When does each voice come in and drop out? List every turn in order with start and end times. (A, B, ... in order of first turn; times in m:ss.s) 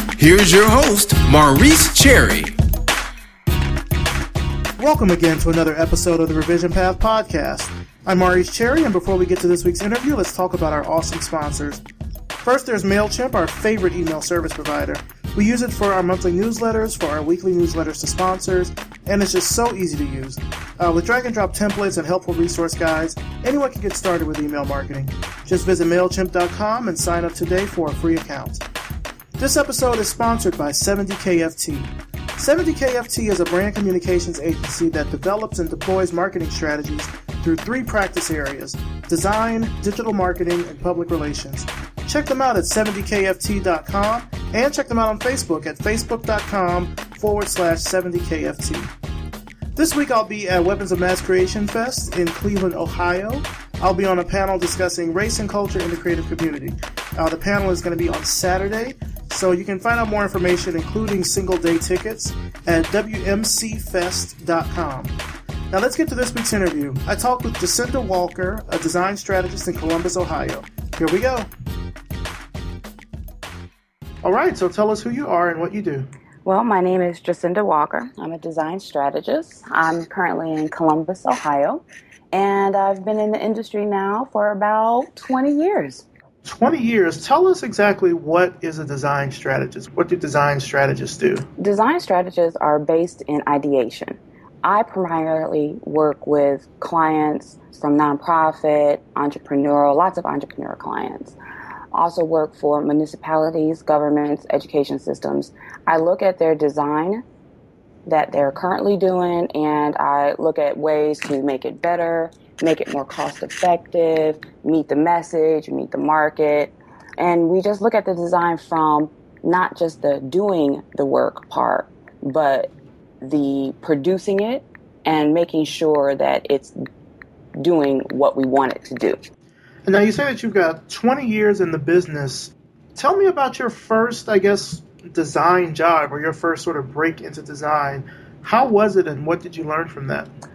0:00.2-0:02.5 A
0:04.8-0:11.8 B
0:12.4-0:28.6 B
0:29.4-0:48.9 B
0:49.8-1:05.2 B
1:05.7-1:11.5 B
1:14.2-1:16.1 B
1:16.4-1:26.0 C
1:26.4-1:31.5 B
1:31.6-1:41.4 C
1:41.9-1:47.2 C
1:48.1-2:06.8 C
2:07.6-2:09.2 C
2:09.8-2:20.3 B